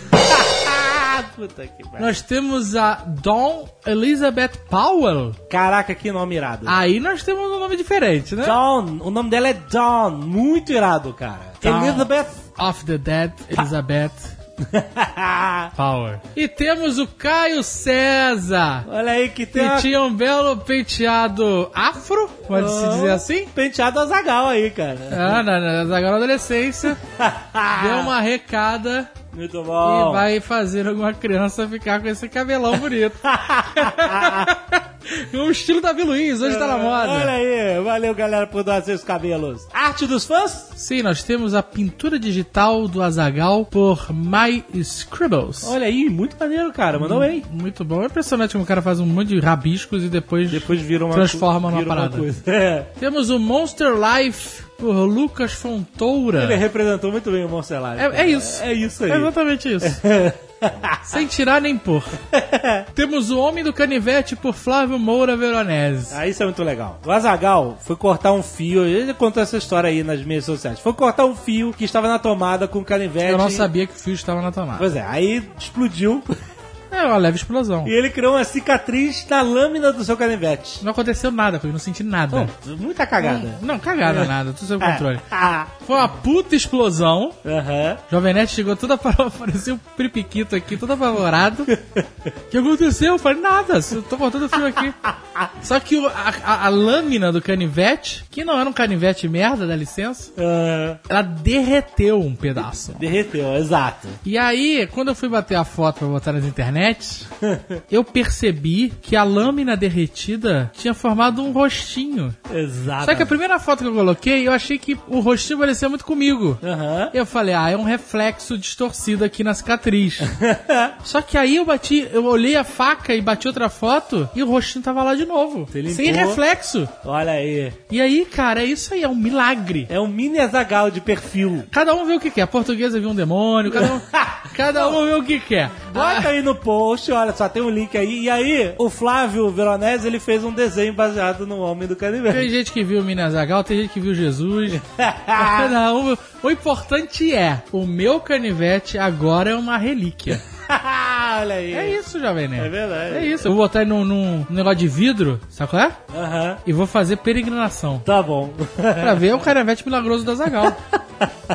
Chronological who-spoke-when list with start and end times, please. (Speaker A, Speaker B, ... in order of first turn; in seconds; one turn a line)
Speaker A: 0.2-2.2
Speaker B: 2.0-5.4
Speaker A: 5.5-6.8
Speaker B: 6.7-8.6
Speaker A: 8.4-12.4
Speaker B: 11.6-14.3
Speaker A: 14.6-15.7
Speaker B: 15.7-18.9
Speaker A: 18.9-19.9
Speaker B: 19.5-23.5
Speaker A: 22.5-25.4
Speaker B: 25.1-27.0
Speaker A: 27.1-28.1
Speaker B: 27.7-29.1
Speaker A: 29.3-30.3
Speaker B: 29.8-37.3
Speaker A: 33.2-34.5
Speaker A: 36.4-40.7
Speaker B: 40.8-45.7
Speaker A: 45.6-47.5
Speaker B: 47.0-52.3
Speaker A: 50.5-52.9
Speaker B: 53.0-56.6
Speaker A: 56.4-61.2
Speaker B: 58.0-60.0
Speaker B: 61.1-62.2
Speaker A: 62.3-62.9
Speaker B: 62.9-66.2
Speaker A: 66.1-73.7
Speaker B: 73.2-74.9
Speaker A: 74.8-76.3
Speaker B: 76.9-77.9
Speaker A: 77.8-80.8
Speaker B: 80.8-82.5
Speaker A: 82.3-85.7
Speaker B: 83.2-87.3
Speaker A: 87.4-88.0
Speaker B: 88.1-91.7
Speaker A: 91.7-92.0
Speaker B: 92.5-95.0
Speaker A: 95.0-95.5
Speaker B: 95.6-100.3
Speaker A: 100.3-101.0
Speaker B: 101.1-103.0
Speaker A: 103.0-104.2
Speaker B: 104.2-107.3
Speaker A: 107.4-107.8
Speaker B: 107.9-112.4
Speaker A: 112.5-113.3
Speaker B: 113.0-116.6
Speaker A: 116.6-117.1
Speaker B: 117.1-120.3
Speaker A: 120.2-120.9
Speaker B: 121.0-126.9
Speaker A: 125.7-126.4
Speaker A: 127.0-127.8
Speaker B: 127.9-129.9
Speaker A: 129.9-131.7
Speaker B: 131.7-136.3
Speaker A: 133.7-135.0
Speaker A: 135.9-142.5
Speaker B: 142.3-150.4
Speaker A: 144.7-145.7
Speaker A: 150.7-152.0
Speaker B: 151.7-156.0
Speaker A: 152.6-153.5
Speaker A: 156.1-156.6
Speaker B: 156.6-158.1
Speaker A: 158.0-159.5
Speaker B: 159.0-160.8
Speaker A: 160.6-161.3